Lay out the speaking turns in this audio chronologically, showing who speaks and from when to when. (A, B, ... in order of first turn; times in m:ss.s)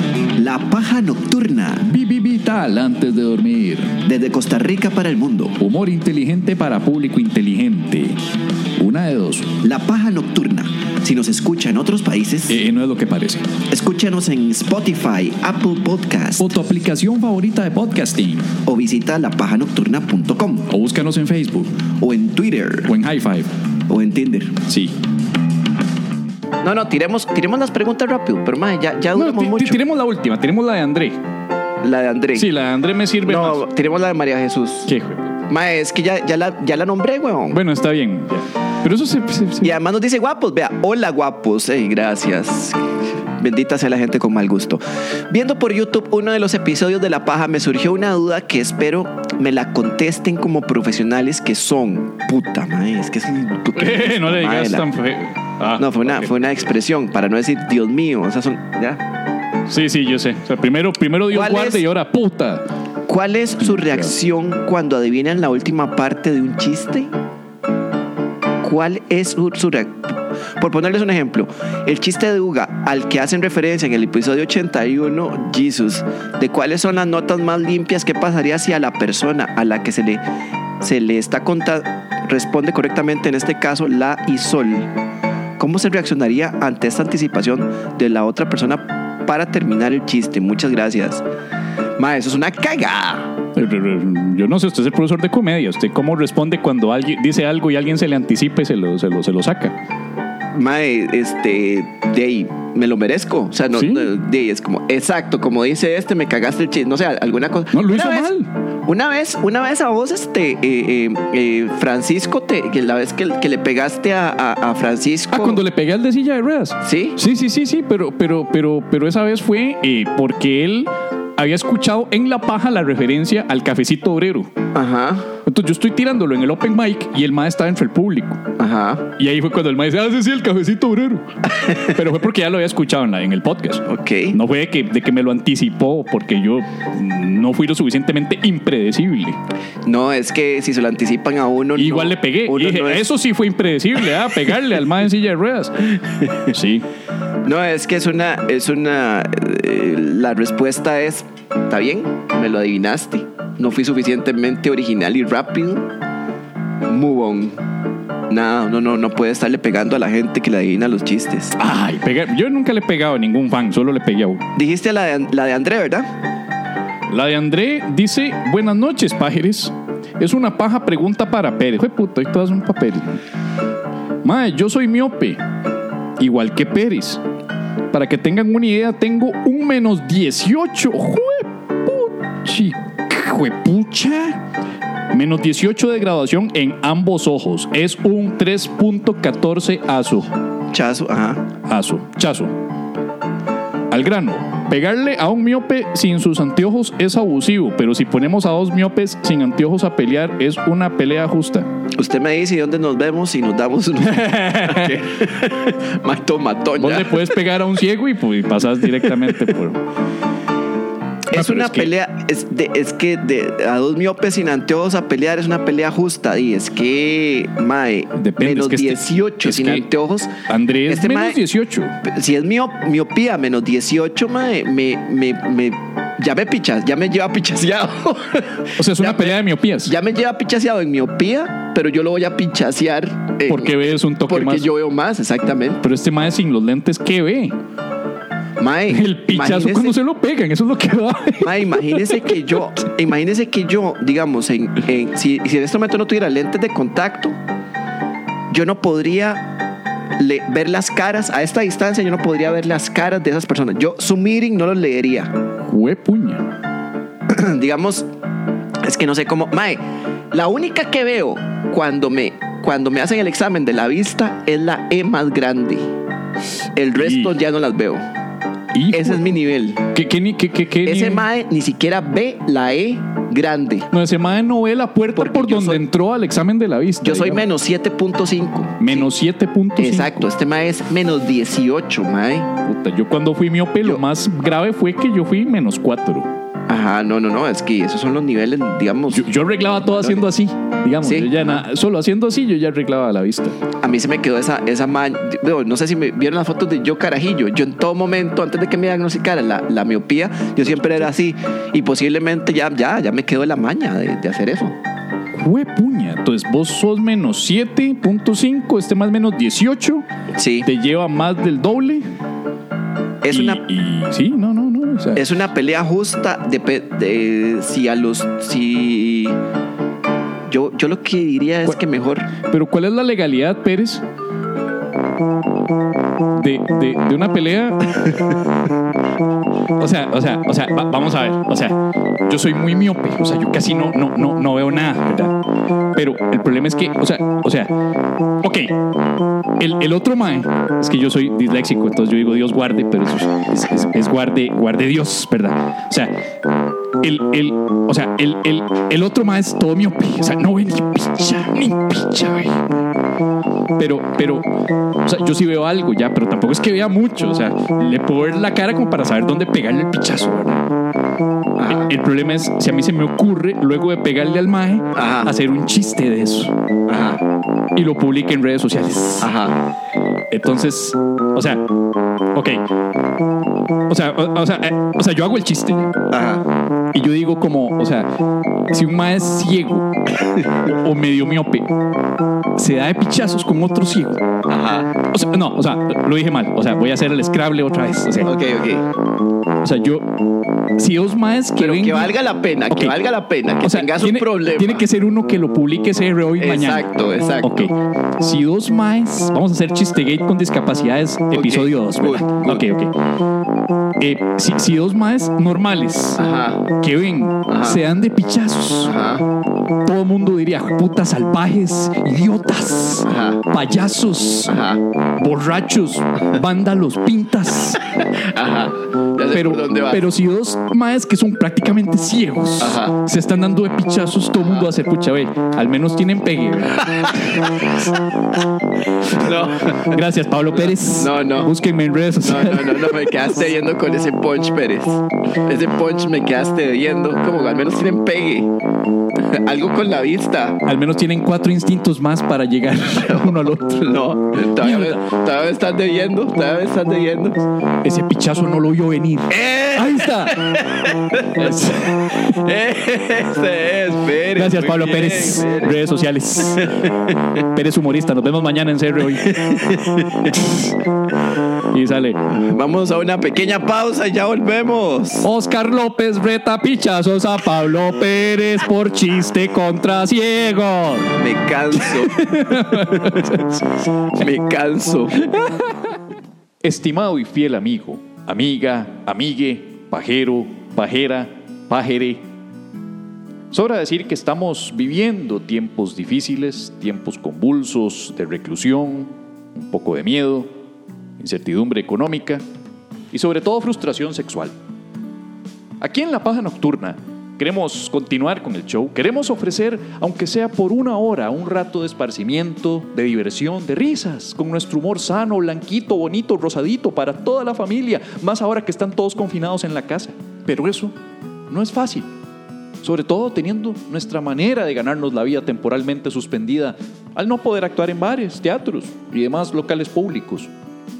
0:00.4-0:01.9 A
0:01.8-0:03.9 B
0:04.0-0:05.6 A
0:05.6-0:08.2 B
0:08.8-0:09.6 B
0:09.6-0:12.6 A
0:12.5-0:13.5 B
0:13.7-0:16.5 A
0:16.4-0:18.5 B
0:18.6-0:20.7 A
0:20.7-0:21.8 B
0:22.0-0:22.9 A
0:22.9-0:23.5 B
0:23.9-0:24.6 A
0:24.7-0:24.9 B
0:26.6-0:29.8 A
0:29.1-0:31.2 B
0:31.8-0:32.5 A
0:32.3-0:33.6 B
0:33.2-0:34.9 A
0:34.9-0:35.4 B
0:35.5-0:37.6 A
0:37.5-0:39.7 B
0:39.6-0:54.9 A
0:53.7-0:56.3 B
0:55.7-0:59.0 A
0:59.7-1:02.6 B
1:01.3-1:01.8 A
1:03.1-1:07.1 A
1:03.6-1:04.1 B
1:08.6-1:20.2 A
1:20.8-1:24.9 A
1:25.6-1:31.2 A
1:32.0-1:33.4 A
1:33.5-1:39.7 B
1:40.5-1:48.3 A
1:43.7-1:44.1 B
1:47.7-1:48.5 B
1:48.8-1:55.6 A
1:55.3-2:04.5 B
1:56.8-1:57.2 A
2:04.7-2:05.3 A
2:05.4-2:08.4 B
2:08.6-2:09.1 A
2:09.2-2:19.4 B
2:13.9-2:14.4 A
2:19.8-2:23.0 A
2:21.8-2:26.8 B
2:27.4-2:35.9 A
2:36.8-2:37.6 A
2:38.3-2:41.6 A
2:41.6-2:44.4 B
2:44.6-2:46.1 A
2:47.1-2:53.2 B
2:54.2-2:55.4 B
2:56.2-2:57.2 B
2:57.9-3:04.4 B
3:05.1-3:10.3 B
3:10.7-3:11.5 A
3:11.6-3:12.5 B
3:13.9-3:21.7 B
3:21.9-3:27.4 A
3:24.1-3:25.0 B
3:26.8-3:29.8 B
3:29.0-3:29.3 A
3:31.3-3:40.3 A
3:31.3-3:31.9 B
3:38.1-3:39.8 B
3:40.5-3:42.0 B
3:40.9-3:41.4 A
3:42.0-3:55.8 A
3:48.8-3:49.9 B
3:53.5-3:54.7 B
3:55.8-3:57.6 B
3:58.6-4:00.0 A
3:58.9-4:02.3 B
4:01.4-4:07.3 A
4:08.5-4:09.5 A
4:10.2-4:15.3 A
4:15.7-4:16.4 B
4:17.3-4:18.0 A
4:18.8-4:19.8 A
4:20.3-4:25.9 A
4:26.7-4:28.0 A
4:26.9-4:27.3 B
4:28.7-4:29.2 B
4:28.9-4:29.8 A
4:29.9-4:31.2 B
4:30.8-4:33.9 A
4:33.9-4:37.4 B
4:35.2-4:35.8 A
4:37.0-4:39.1 A
4:38.8-4:40.3 B
4:39.8-4:42.5 A
4:42.6-4:46.3 B
4:46.7-4:49.2 A
4:49.1-4:53.6 B
4:50.0-4:50.2 A
4:51.0-4:51.6 A
4:53.8-5:04.8 A
5:05.4-5:10.0 B
5:10.3-5:10.7 A
5:10.6-5:12.0 B
5:13.2-5:13.6 A
5:13.3-5:15.3 B
5:15.1-5:19.4 A
5:20.5-5:22.3 A
5:22.5-5:24.0 B
5:26.4-5:28.2 B
5:29.8-5:35.4 B
5:35.9-5:37.7 B
5:38.4-5:38.7 B
5:39.6-5:46.1 B
5:47.0-5:52.6 B
5:53.8-5:54.5 B
5:55.0-6:00.6 B
6:01.6-6:01.9 A
6:01.6-6:06.5 B
6:04.9-6:05.3 A
6:06.9-6:07.2 A
6:07.7-6:09.3 B
6:09.2-6:09.6 A
6:10.3-6:11.7 B
6:12.3-6:12.6 B
6:13.9-6:15.9 B
6:16.1-6:16.4 A
6:16.9-6:18.1 B
6:18.7-6:19.9 B
6:20.6-6:21.7 B
6:22.6-6:24.2 B
6:24.5-6:25.0 A
6:25.0-6:28.3 B
6:28.2-6:28.9 A
6:29.6-6:30.1 B
6:30.8-6:32.2 B
6:31.6-6:34.9 A
6:32.7-6:33.0 B
6:33.6-6:36.9 B
6:36.4-6:37.7 A
6:37.4-6:42.9 B
6:41.3-6:42.6 A
6:44.0-6:46.2 B
6:46.2-6:46.7 A
6:46.8-6:48.9 B
6:47.5-6:47.8 A
6:48.8-6:49.2 A
6:49.8-6:54.6 B
6:53.0-6:53.4 A
6:54.4-6:54.8 A
6:55.2-6:57.8 B
6:57.9-7:00.0 A
6:59.3-7:07.4 B
7:02.6-7:03.0 A
7:06.7-7:07.9 A
7:09.0-7:09.9 A
7:09.7-7:13.2 B
7:10.6-7:11.5 A
7:12.2-7:18.5 A
7:19.2-7:20.6 A
7:20.6-7:25.0 B
7:23.1-7:27.4 A
7:27.8-7:30.6 B
7:29.3-7:35.8 A
7:31.4-7:32.0 B
7:34.3-7:39.3 B
7:36.6-7:37.2 A
7:39.1-7:40.5 A
7:41.7-7:42.2 B
7:42.3-7:45.3 A
7:45.2-7:51.2 B
7:51.2-7:53.4 A
7:51.7-7:53.7 B
7:54.1-7:55.4 A
7:55.3-7:55.7 B
7:56.6-8:02.2 B
8:03.5-8:10.5 B
8:11.2-8:12.4 B
8:13.1-8:14.5 B
8:15.8-8:30.9 B
8:31.5-8:32.1 B
8:32.8-8:40.5 B